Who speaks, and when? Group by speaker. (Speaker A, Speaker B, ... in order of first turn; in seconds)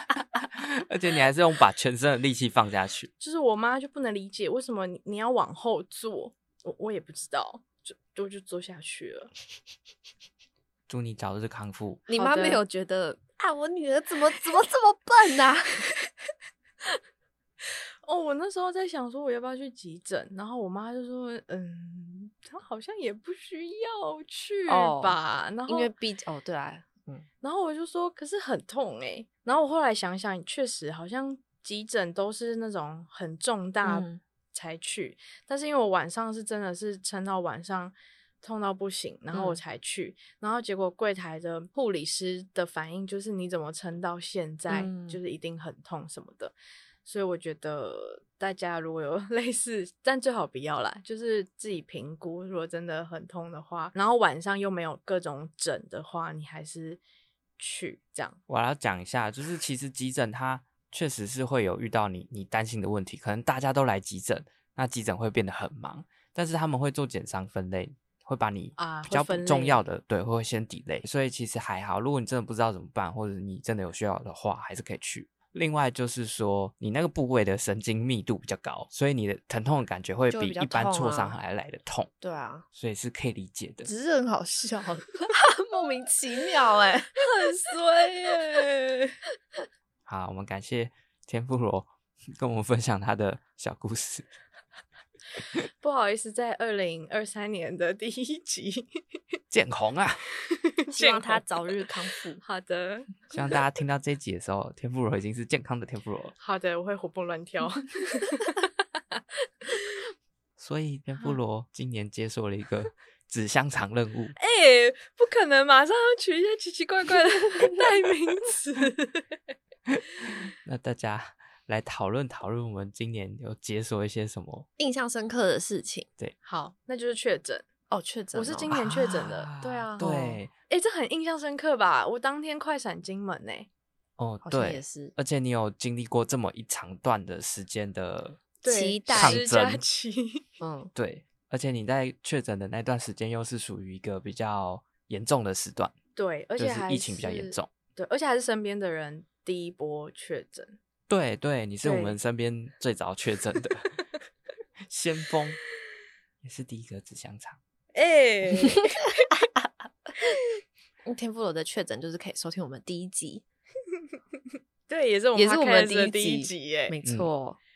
Speaker A: 0.4-3.1, 10.9-12.1, 58.5-82.1, 82.7-83.9, 90.1-94.3, 99.5-100.2, 103.3-106.3, 110.6-114.3, 119.9-124.7, 128.7-130.5, 134.2-138.4, 139.1-139.8, 140.9-145.9, 146.6-147.7, 151.1-153.9, 154.9-155.6, 156.4-157.6
Speaker B: 3.2-9.3, 12.2-12.6, 18.0-25.9, 27.4-46.5, 47.0-57.0, 57.6-58.4, 68.8-69.8, 87.2-89.2, 95.8-99.0, 100.5-101.9, 102.4-103.5, 106.4-109.2, 114.4-119.4, 126.4-127.7, 128.3-133.7, 138.6-140.4, 146.2-150.8, 151.8-152.2, 157.9-159.3, 164.9-166.9
Speaker C: 12.1-15.8, 24.7-27.3, 33.8-34.2, 39.3-39.6, 44.7-45.2, 80.3-81.3, 82.2-82.7, 83.9-87.2, 100.9-102.4, 124.8-126.1, 127.9-128.8, 134.4-135.1, 138.7-139.4, 140.6-140.9, 161.1-163.4, 165.4-167.6